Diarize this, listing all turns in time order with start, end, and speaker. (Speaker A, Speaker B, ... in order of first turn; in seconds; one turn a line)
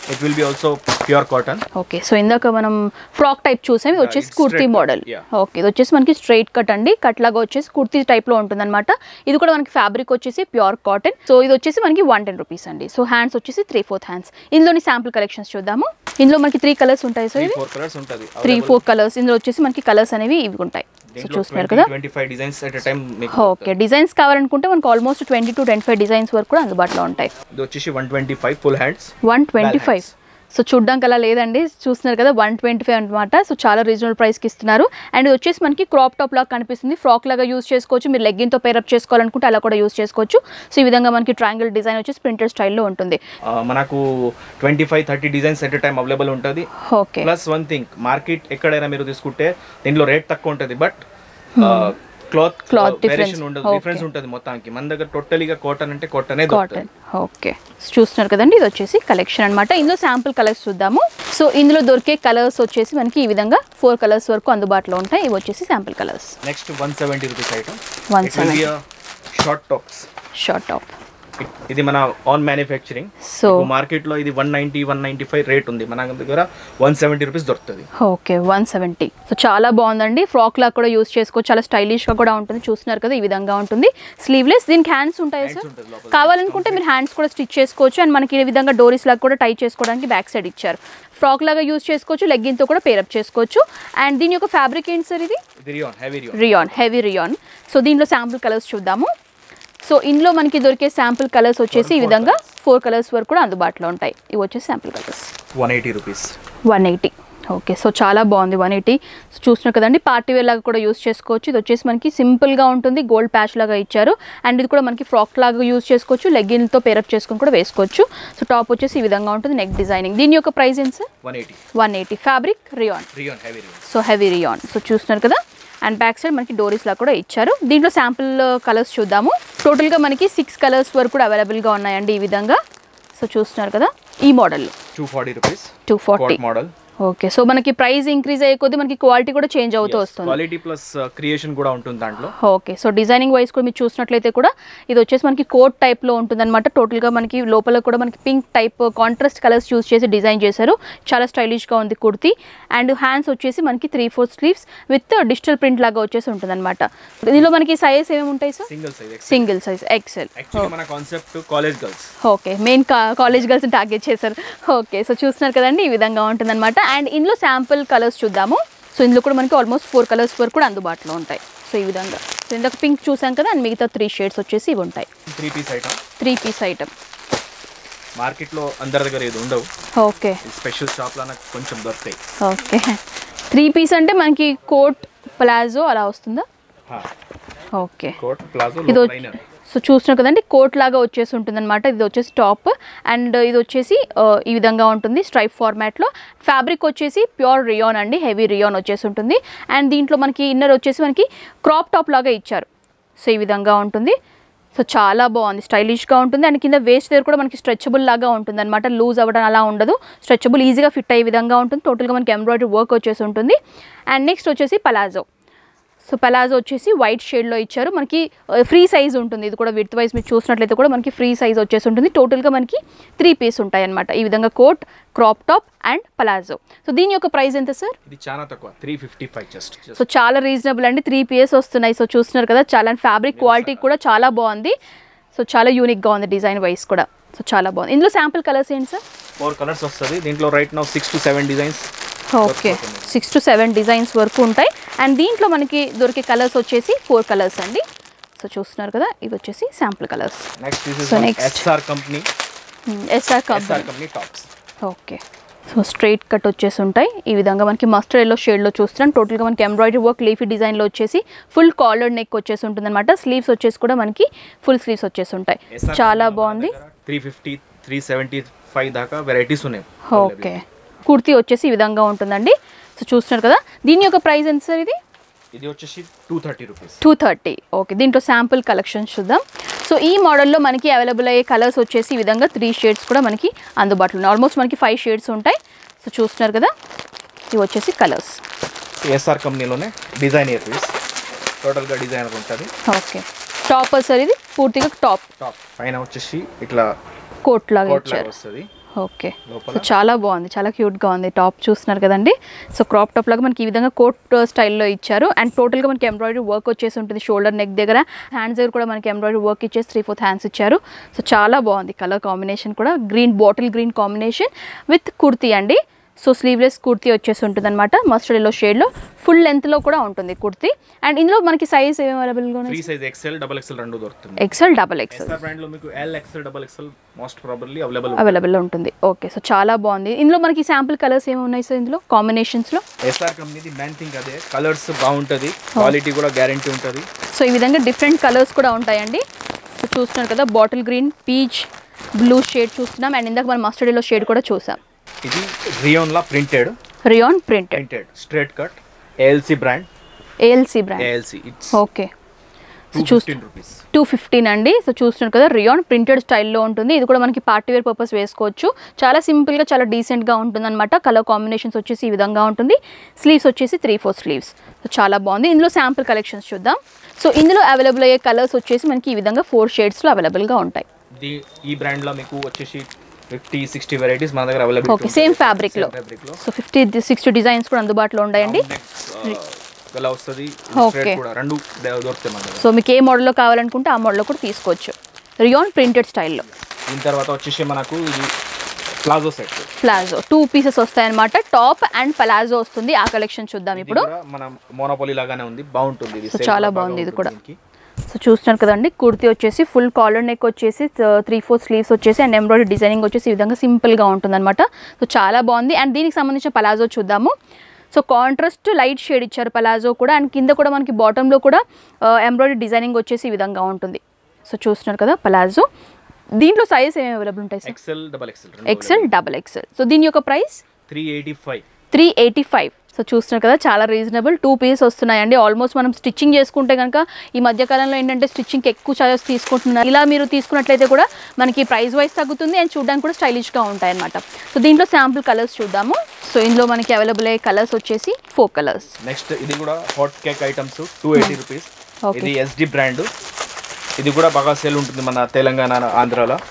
Speaker A: 0.1-1.6
Speaker B: 1.7-17.6
Speaker A: 3.9-5.2
Speaker A: 17.4-18.8
Speaker B: 18.4-21.9
Speaker A: 21.1-23.7
Speaker B: 23.3-27.3
Speaker A: 27.5-30.1
Speaker B: 29.2-43.2
Speaker A: 43.5-46.7
Speaker B: 46.9-47.3
Speaker A: 47.2-51.0
Speaker B: 51.6-51.9
Speaker A: 51.6-56.8
Speaker B: 52.7-54.0
Speaker B: 56.5-66.4
Speaker A: 66.4-68.8
Speaker B: 68.1-68.7
Speaker A: 69.3-70.1
Speaker B: 70.4-70.9
Speaker A: 71.4-77.9
Speaker B: 73.2-73.7
Speaker B: 78.0-95.4
Speaker A: 85.4-86.8
Speaker A: 95.6-96.8
Speaker B: 96.3-99.1
Speaker B: 99.8-105.3
Speaker A: 101.7-102.4
Speaker A: 105.5-106.3
Speaker B: 106.7-121.1
Speaker A: 121.2-121.6
Speaker B: 121.8-123.1
Speaker A: 123.1-123.8
Speaker B: 123.8-132.6
Speaker B: 133.2-134.7
Speaker A: 134.9-136.7
Speaker B: 135.9-136.4
Speaker B: 137.0-140.4
Speaker A: 139.8-142.3
Speaker B: 142.3-158.7
Speaker A: 158.7-159.5
Speaker B: 159.3-160.7
Speaker A: 160.3-162.1
Speaker B: 162.2-175.1
Speaker A: 175.3-176.0
Speaker B: 176.2-176.9
Speaker A: 178.2-179.7
Speaker B: 180.0-180.4
Speaker A: 180.4-182.2
Speaker B: 182.4-183.0
Speaker B: 183.5-186.4
Speaker B: 187.8-188.2
Speaker A: 188.2-189.4
Speaker B: 188.9-202.7
Speaker B: 203.2-204.2
Speaker B: 204.7-213.6
Speaker B: 214.1-215.2
Speaker B: 216.0-227.9
Speaker A: 228.1-230.1
Speaker B: 229.9-234.7
Speaker A: 233.3-233.9
Speaker B: 235.3-239.0
Speaker A: 239.4-241.9
Speaker B: 242.3-247.8
Speaker A: 242.4-243.2
Speaker B: 248.4-250.5
Speaker A: 250.6-252.3
Speaker B: 251.0-251.7
Speaker B: 252.9-253.9
Speaker A: 253.5-254.5
Speaker B: 254.8-266.7
Speaker A: 265.7-270.6
Speaker B: 270.1-274.9
Speaker A: 275.5-277.0
Speaker B: 277.0-286.7
Speaker B: 287.5-288.4
Speaker A: 289.0-290.9
Speaker A: 291.6-292.7
Speaker B: 292.9-295.3
Speaker A: 295.4-296.9
Speaker B: 297.4-298.3
Speaker A: 297.8-298.7
Speaker B: 299.0-322.8
Speaker A: 299.5-299.9
Speaker A: 322.7-324.4
Speaker B: 324.4-325.4
Speaker A: 325.1-328.4
Speaker B: 328.2-332.8
Speaker A: 333.0-337.1
Speaker B: 337.3-339.2
Speaker B: 339.8-344.8
Speaker A: 345.2-346.8
Speaker B: 347.1-347.8
Speaker A: 347.7-349.9
Speaker B: 350.4-351.1
Speaker A: 351.0-351.8
Speaker B: 351.7-352.1
Speaker B: 352.9-353.4
Speaker A: 352.9-353.8
Speaker B: 353.9-370.9
Speaker A: 371.2-376.4
Speaker B: 374.9-378.6
Speaker A: 378.4-382.6
Speaker B: 380.7-381.2
Speaker B: 382.6-386.4
Speaker A: 386.9-388.3
Speaker A: 389.0-389.7
Speaker B: 389.8-394.1
Speaker A: 393.7-397.6
Speaker B: 396.2-397.3
Speaker B: 398.1-407.3
Speaker B: 407.9-415.7
Speaker B: 416.4-417.8
Speaker A: 417.6-419.2
Speaker B: 418.6-420.6
Speaker A: 420.9-421.6
Speaker B: 421.9-438.9
Speaker A: 439.0-443.1
Speaker B: 442.1-442.3
Speaker A: 444.0-446.4